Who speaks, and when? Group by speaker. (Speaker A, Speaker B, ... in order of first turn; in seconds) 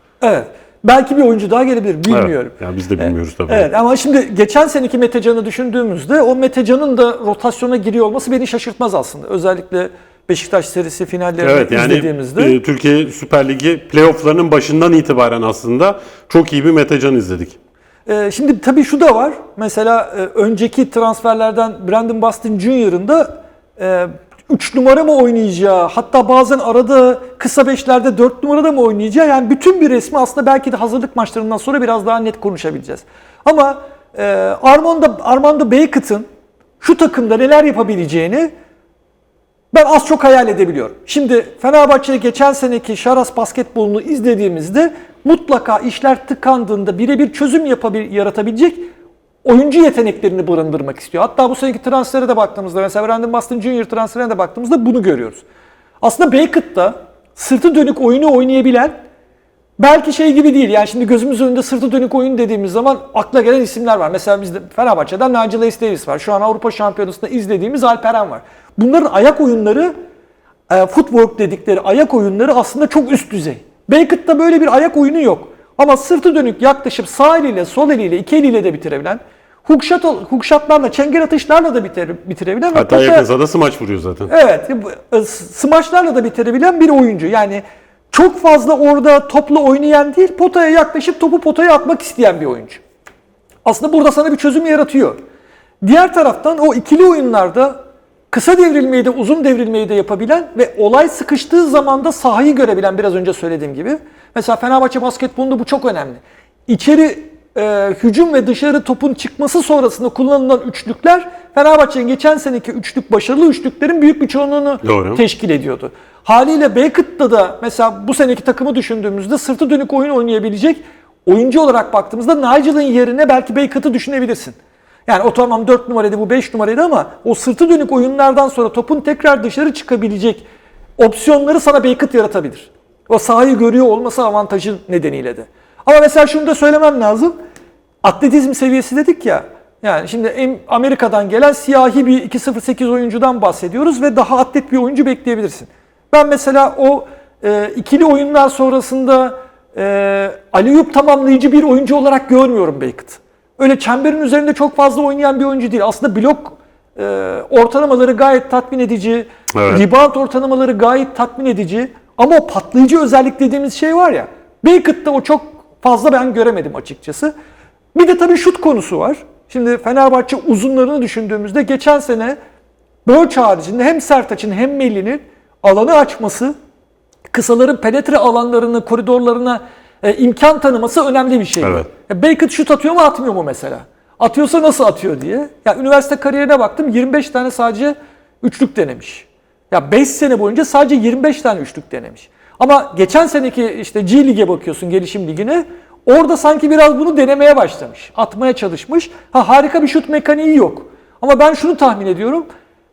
Speaker A: 0.2-12.6, 18.1-36.2, 36.8-38.5, 39.7-48.9, 49.4-55.4, 56.0-59.0, 59.8-69.9, 70.7-83.2, 84.3-92.8, 93.6-95.2, 95.8-130.4, 131.0-137.3, 138.0-167.3, 167.9-172.4, 173.0-176.5, 177.3-202.5
Speaker B: 2.1-3.7, 11.4-17.6, 82.7-84.3, 114.8-115.2, 159.5-159.8